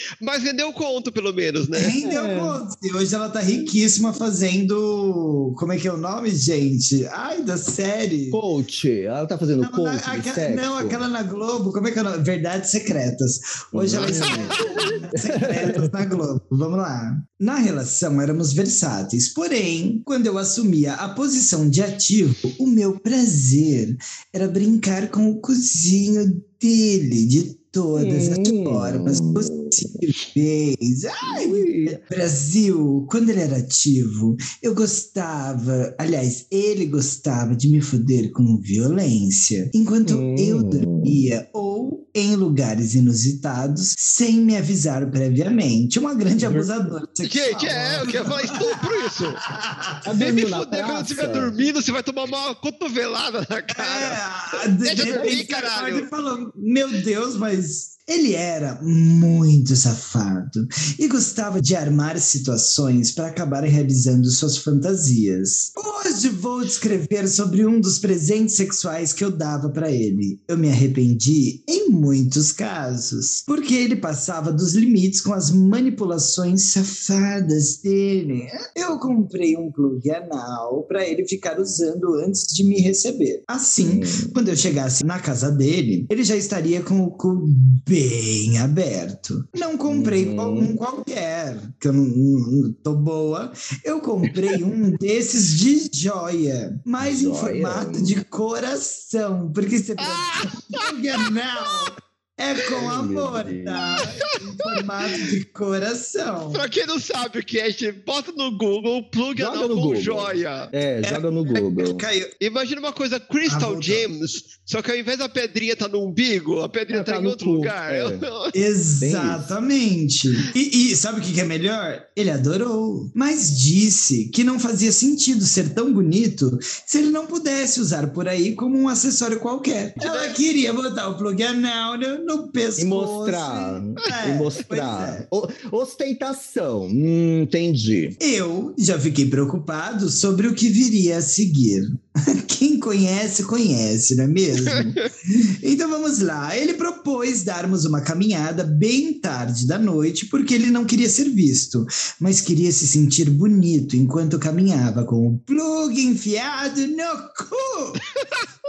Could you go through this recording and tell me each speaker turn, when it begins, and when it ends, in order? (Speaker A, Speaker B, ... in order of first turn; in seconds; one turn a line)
Speaker A: 0.2-1.9
Speaker B: 1.7-8.4
Speaker C: 2.0-2.6
Speaker C: 8.3-11.0
Speaker B: 9.6-48.5
Speaker C: 13.7-14.6
Speaker A: 14.1-14.8
Speaker C: 15.1-15.9
Speaker C: 27.9-29.8
Speaker C: 31.2-32.0
Speaker C: 40.0-41.2
Speaker C: 46.4-46.7
Speaker A: 47.2-49.4
Speaker B: 49.6-50.0
Speaker C: 50.0-51.6
Speaker A: 50.2-54.2
Speaker B: 53.8-106.6
Speaker A: 54.8-56.1
Speaker C: 55.0-55.3
Speaker C: 83.8-84.3
Speaker C: 89.9-90.8
Speaker C: 97.0-98.2
Speaker A: 100.0-100.8
Speaker C: 102.7-103.8
Speaker A: 104.6-105.2
Speaker A: 106.5-110.7
Speaker C: 109.4-112.0
Speaker B: 111.0-112.3
Speaker A: 112.4-118.5
Speaker B: 113.5-114.1
Speaker C: 116.9-118.2
Speaker B: 118.5-135.2
Speaker C: 119.0-119.5
Speaker A: 130.0-130.4
Speaker C: 132.8-138.2
Speaker B: 138.2-141.9
Speaker B: 142.4-158.0
Speaker A: 158.2-158.4